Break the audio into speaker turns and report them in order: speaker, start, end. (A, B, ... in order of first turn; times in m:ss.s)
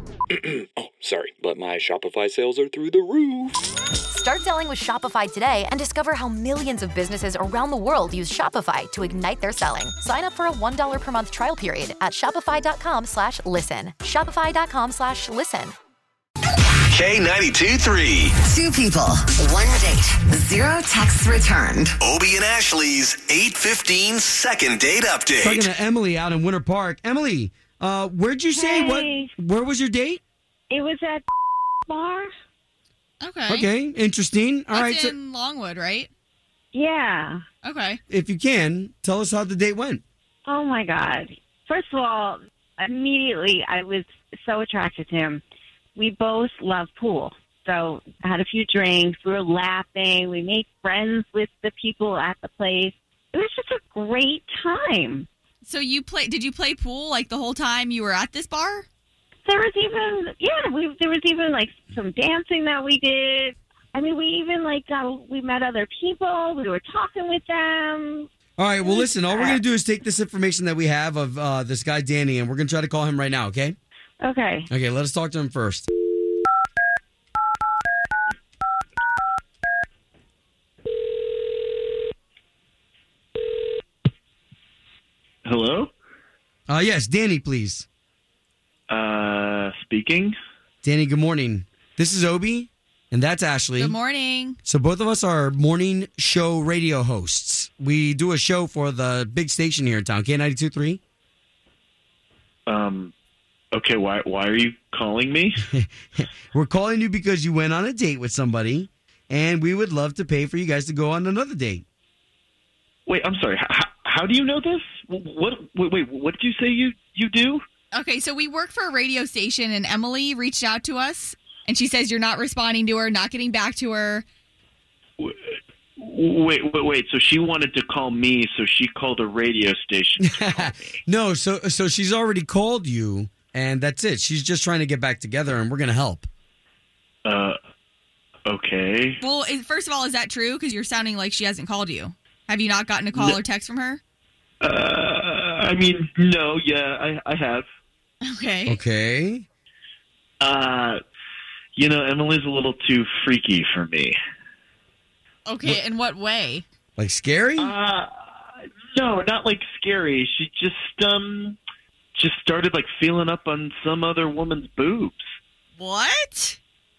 0:00.4-0:03.5 A
0:04.1-0:15.7 B
0:16.9-0:18.3 C
0:18.4-0:22.0 D
0:22.0-0:25.6 C
0:25.4-0:30.2 E
0:28.5-0:29.3 F
0:30.7-0:31.2 F
0:31.9-0:32.3 F
0:33.2-0:33.7 G
0:33.5-0:35.1 E
0:34.7-0:36.1 G
0:36.7-0:37.4 F
0:37.6-0:38.0 G
0:38.1-0:40.0 E
0:40.4-0:45.4 F
0:46.0-0:55.3 F
0:55.6-0:58.8 G
0:59.4-1:08.3 F
1:08.6-1:13.8 E
1:08.8-1:09.6 F
1:14.2-1:14.7 F
1:14.7-1:15.8 E
1:25.4-1:25.9 H
1:26.7-1:27.8 E
1:28.9-1:30.4 H
1:30.8-1:34.0 E
1:33.8-1:34.6 G
1:34.6-1:41.0 E
1:42.7-1:43.1 H
1:43.7-1:45.6 H
1:45.7-1:51.8 E
1:53.0-1:57.6 H
1:57.9-2:04.2 G
2:05.2-2:11.0 H
2:10.2-2:16.3 E
2:17.2-2:17.6 H
2:18.4-2:19.2 H
2:19.2-2:24.0 G
2:24.6-2:27.6 H
2:28.2-2:28.8 G
2:28.7-2:29.4 E
2:30.4-2:31.0 H
2:31.8-2:34.2 H
2:35.4-2:36.6 G
2:37.0-2:37.7 E
2:37.6-2:41.6 H
2:42.2-2:45.3 H
2:45.8-2:46.6 G